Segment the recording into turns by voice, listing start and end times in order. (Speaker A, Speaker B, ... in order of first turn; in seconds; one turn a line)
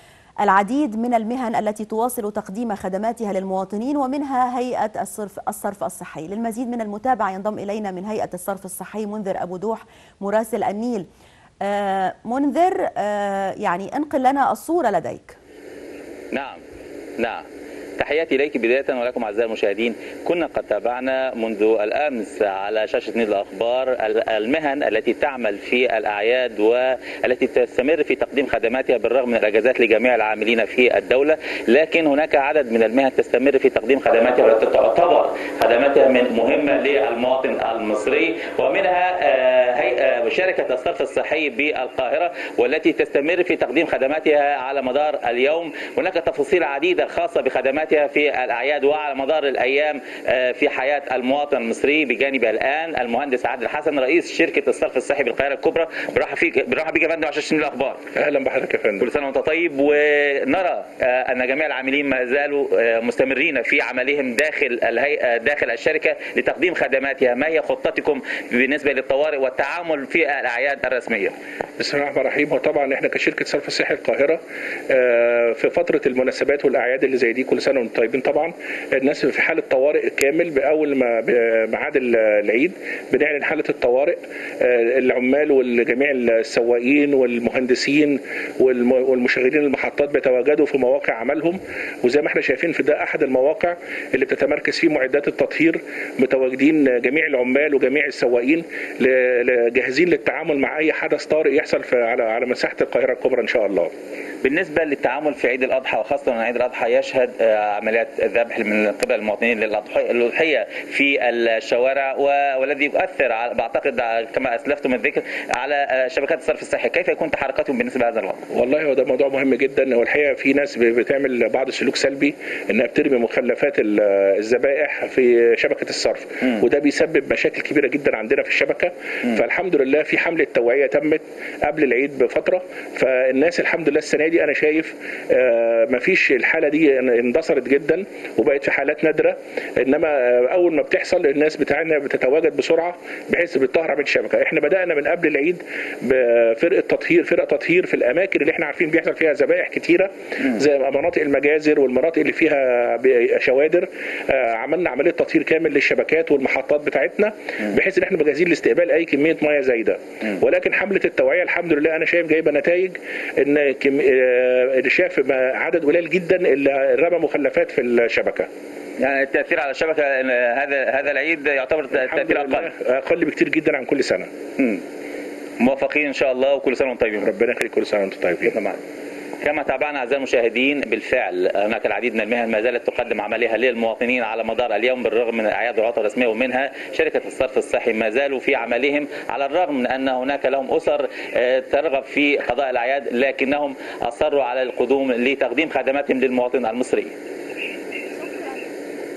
Speaker A: 0.4-11.1
Speaker A: 11.6-15.4
Speaker B: 16.3-16.6
Speaker B: 17.2-17.4
Speaker B: 18.0-58.0
Speaker C: 58.1-59.1
Speaker B: 59.0-71.3
Speaker C: 71.8-103.9
Speaker B: 104.4-118.4
Speaker C: 118.5-168.5
Speaker B: 169.0-172.7
Speaker C: 171.9-174.3
Speaker B: 174.6-174.8
Speaker B: 175.6-177.3
Speaker C: 177.2-178.6
Speaker B: 178.5-178.8
Speaker B: 179.4-197.1
Speaker A: 198.1-198.6